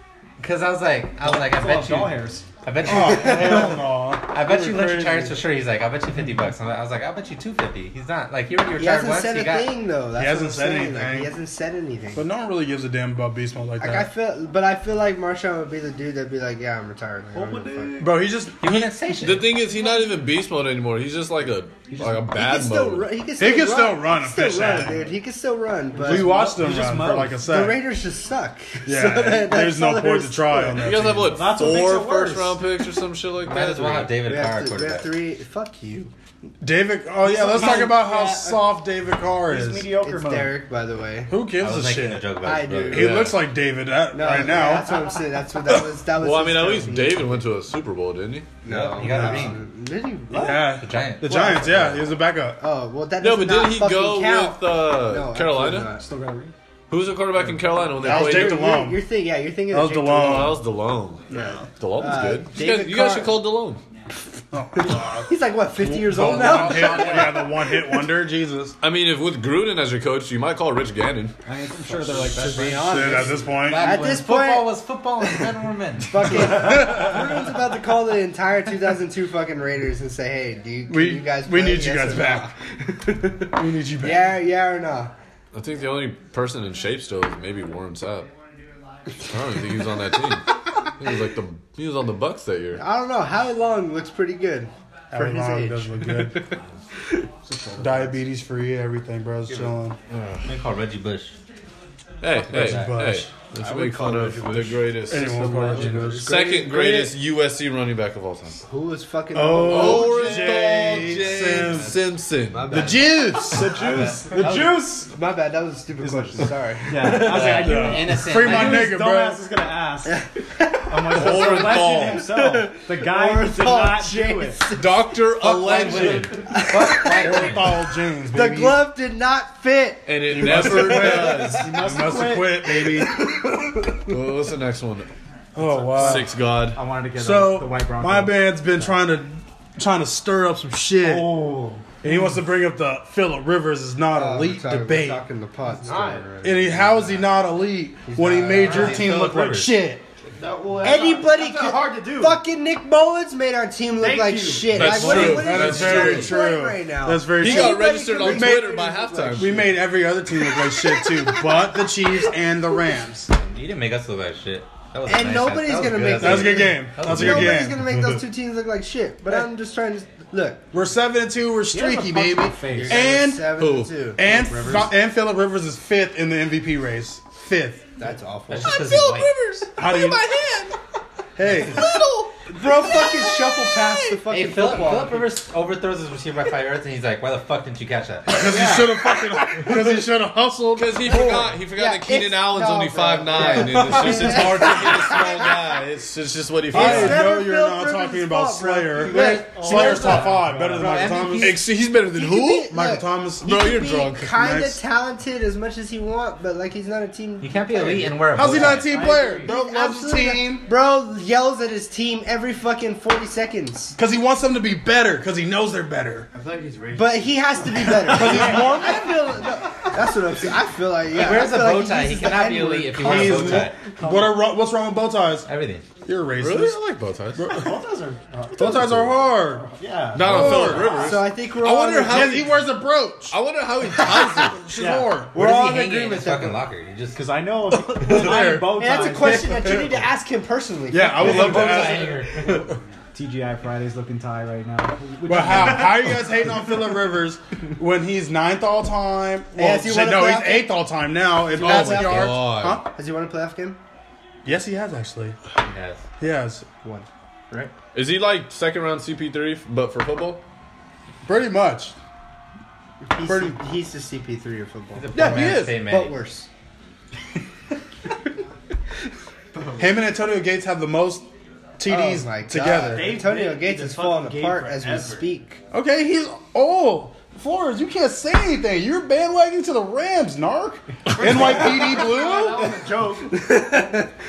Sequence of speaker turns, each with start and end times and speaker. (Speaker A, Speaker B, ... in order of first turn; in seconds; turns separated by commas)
Speaker A: 0.4-9.7, Speaker B: 1.2-2.5, Speaker C: 2.8-5.4, Speaker D: 3.2-3.6, Speaker D: 8.8-12.2, Speaker C: 10.1-11.3, Speaker C: 12.2-14.1, Speaker D: 13.8-18.1, Speaker B: 17.3-18.1, Speaker C: 18.0-18.9, Speaker A: 18.6-19.6, Speaker E: 19.2-23.1, Speaker B: 21.9-22.2, Speaker D: 22.3-26.3, Speaker C: 23.4-25.1, Speaker B: 25.9-27.4, Speaker C: 26.0-27.8, Speaker D: 27.4-30.8, Speaker C: 28.9-31.5, Speaker E: 30.7-34.1, Speaker B: 31.2-32.6, Speaker A: 33.4-35.1, Speaker D: 34.2-36.1, Speaker C: 36.6-39.9, Speaker B: 37.2-38.6, Speaker D: 37.4-38.2, Speaker B: 39.5-40.6, Speaker D: 39.9-41.3, Speaker C: 41.3-42.3, Speaker A: 41.6-43.2, Speaker D: 42.4-43.3, Speaker C: 42.9-44.9, Speaker E: 43.0-43.3, Speaker D: 44.1-47.5, Speaker E: 46.1-48.5, Speaker D: 48.6-52.0, Speaker A: 48.6-49.6, Speaker C: 49.0-49.5, Speaker C: 50.3-52.6, Speaker A: 50.5-52.0, Speaker D: 52.6-56.0, Speaker E: 53.2-55.9, Speaker B: 55.9-56.5, Speaker E: 56.9-58.7, Speaker D: 58.0-60.6, Speaker C: 58.0-59.0, Speaker C: 59.7-60.6, Speaker E: 60.2-63.8, Speaker C: 61.3-61.6, Speaker D: 61.3-63.4, Speaker C: 64.5-68.8, Speaker D: 64.8-67.8, Speaker E: 68.8-71.3, Speaker B: 71.5-73.6, Speaker A: 72.2-76.4, Speaker C: 72.8-74.0, Speaker D: 73.7-74.7, Speaker D: 76.1-85.1, Speaker C: 76.6-77.2, Speaker C: 80.9-82.5, Speaker C: 83.5-84.3, Speaker E: 85.5-88.3, Speaker E: 89.2-92.8, Speaker D: 92.7-96.6, Speaker C: 95.1-96.5, Speaker B: 97.5-98.1, Speaker C: 97.8-100.0, Speaker A: 100.1-101.3, Speaker E: 102.2-108.6, Speaker A: 102.5-103.0, Speaker C: 102.5-103.3, Speaker F: 103.6-104.8, Speaker C: 105.0-106.3, Speaker D: 105.2-107.1, Speaker D: 108.6-112.0, Speaker C: 109.3-112.0, Speaker E: 109.6-112.9, Speaker D: 112.5-117.7, Speaker C: 112.7-113.9, Speaker B: 113.6-115.1, Speaker F: 113.8-114.6, Speaker B: 116.0-120.2, Speaker A: 117.2-118.9, Speaker C: 117.6-119.4, Speaker D: 120.0-131.6, Speaker B: 120.9-124.7, Speaker E: 121.1-122.3, Speaker E: 124.7-126.4, Speaker C: 125.5-126.2, Speaker A: 126.1-127.8, Speaker C: 127.0-128.8, Speaker E: 130.1-131.8, Speaker C: 130.3-133.1, Speaker B: 131.4-132.7, Speaker D: 132.6-134.2, Speaker E: 134.1-135.1, Speaker C: 135.5-136.3, Speaker B: 135.6-139.0, Speaker E: 136.0-136.8, Speaker C: 137.2-141.3, Speaker B: 141.0-141.8, Speaker C: 142.0-145.2, Speaker D: 144.1-147.3, Speaker F: 145.7-146.3, Speaker C: 146.4-150.0, Speaker D: 148.1-149.1, Speaker A: 148.6-149.7, Speaker F: 150.3-152.4, Speaker D: 150.8-159.8, Speaker F: 154.0-155.6, Speaker E: 154.7-156.4, Speaker C: 154.8-158.8, Speaker E: 157.4-159.7, Speaker C: 159.3-163.3, Speaker D: 160.4-161.8, Speaker A: 163.3-167.7, Speaker D: 165.1-170.7, Speaker C: 166.1-168.2, Speaker C: 170.7-173.5, Speaker B: 171.7-173.0, Speaker D: 172.7-174.9, Speaker E: 173.6-173.9, Speaker C: 174.2-177.9, Speaker D: 178.0-179.0, Speaker A: 178.5-179.3, Speaker E: 178.6-180.8, Speaker C: 179.8-180.2, Speaker D: 181.4-185.3, Speaker C: 181.4-181.7, Speaker E: 181.6-184.1, Speaker A: 184.3-188.6, Speaker C: 188.3-191.5, Speaker E: 190.8-197.2, Speaker D: 191.1-195.5, Speaker C: 193.5-194.6, Speaker D: 196.7-200.3, Speaker C: 196.7-201.7, Speaker F: 199.2-200.2, Speaker B: 199.3-201.2, Speaker A: 199.7-200.3, Speaker A: 200.8-201.5, Speaker E: 201.4-202.7, Speaker D: 202.1-208.7, Speaker C: 202.7-203.6, Speaker E: 203.4-204.3, Speaker C: 204.2-204.8, Speaker A: 207.4-208.9, Speaker C: 208.3-210.7, Speaker B: 208.5-209.5, Speaker D: 209.4-213.9, Speaker C: 213.9-216.3, Speaker F: 216.3-218.8, Speaker D: 216.9-223.8, Speaker C: 218.0-219.2, Speaker A: 221.1-223.8, Speaker C: 223.0-225.5, Speaker B: 224.0-224.4, Speaker A: 225.5-225.8, Speaker C: 226.0-226.8, Speaker E: 226.4-227.7, Speaker C: 227.4-227.7, Speaker B: 227.5-231.1, Speaker C: 228.6-231.0, Speaker E: 228.6-229.1, Speaker E: 230.1-232.7, Speaker D: 230.8-232.5, Speaker C: 232.0-233.3, Speaker E: 233.3-234.7, Speaker D: 233.9-234.5, Speaker C: 234.4-235.3, Speaker B: 234.7-235.2, Speaker D: 235.3-236.7, Speaker A: 235.3-237.2, Speaker B: 237.1-239.9, Speaker C: 238.0-238.7, Speaker D: 238.1-242.1, Speaker C: 240.9-242.7, Speaker A: 241.1-242.6, Speaker B: 243.1-246.3, Speaker C: 245.3-252.9, Speaker D: 249.5-250.8, Speaker D: 251.5-253.8, Speaker E: 251.6-252.8, Speaker C: 254.4-255.4, Speaker A: 255.6-256.0, Speaker C: 256.2-256.6, Speaker D: 256.8-257.7, Speaker E: 257.9-260.4, Speaker C: 261.2-261.9, Speaker D: 263.1-266.5, Speaker C: 263.2-263.6, Speaker A: 264.9-266.1, Speaker E: 265.1-265.7, Speaker F: 269.5-269.9, Speaker C: 269.8-271.3, Speaker C: 271.8-273.2, Speaker D: 271.9-275.6, Speaker F: 272.7-275.2, Speaker B: 273.2-275.1, Speaker C: 275.7-282.8, Speaker F: 281.1-283.4, Speaker D: 283.3-284.1